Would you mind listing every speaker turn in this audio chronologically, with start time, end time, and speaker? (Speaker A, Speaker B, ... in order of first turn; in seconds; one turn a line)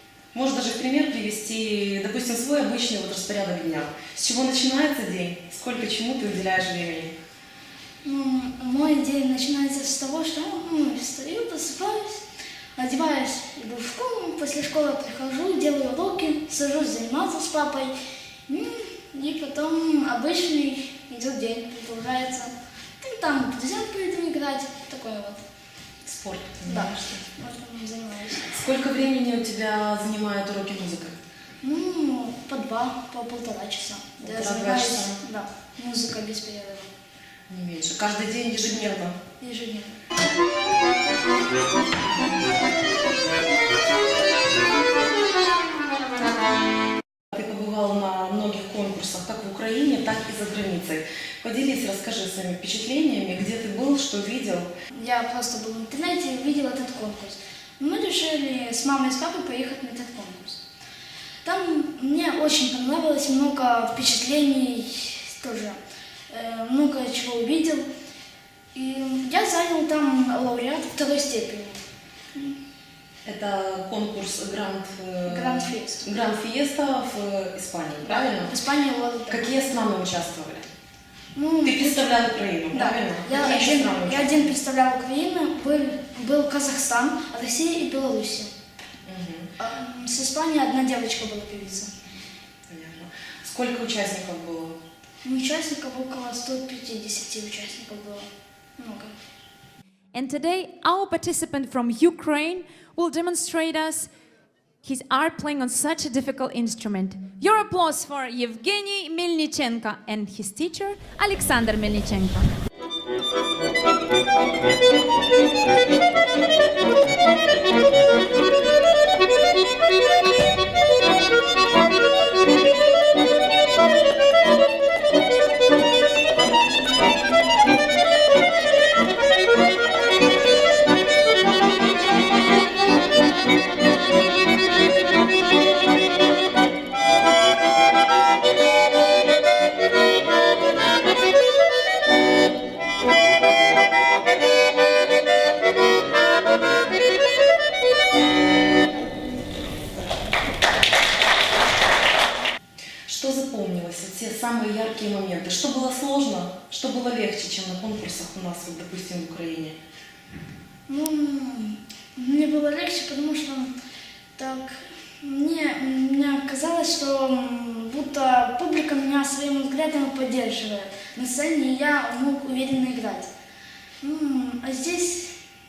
Speaker A: 0.3-7.2
Speaker B: 8.0-12.2
Speaker B: 12.8-17.9
Speaker B: 18.5-25.4
Speaker A: 26.0-27.2
Speaker B: 26.7-28.5
Speaker A: 28.5-31.2
Speaker B: 31.6-36.9
Speaker A: 34.2-35.2
Speaker A: 37.5-39.2
Speaker B: 39.4-40.0
Speaker A: 47.3-54.7
Speaker B: 54.9-60.6
Speaker B: 61.4-67.8
Speaker B: 68.7-71.8
Speaker A: 73.2-78.5
Speaker B: 75.3-76.0
Speaker B: 78.1-79.5
Speaker A: 79.3-80.7
Speaker B: 81.3-88.5
Speaker A: 81.7-84.5
Speaker A: 89.0-89.5
Speaker B: 89.6-91.9
Speaker A: 92.7-94.8
Speaker B: 95.2-99.2
Speaker C: 100.1-104.1
Speaker C: 104.8-112.5
Speaker A: 153.1-159.8
Speaker B: 160.9-163.7
Speaker B: 164.3-173.3
Speaker B: 174.0-175.3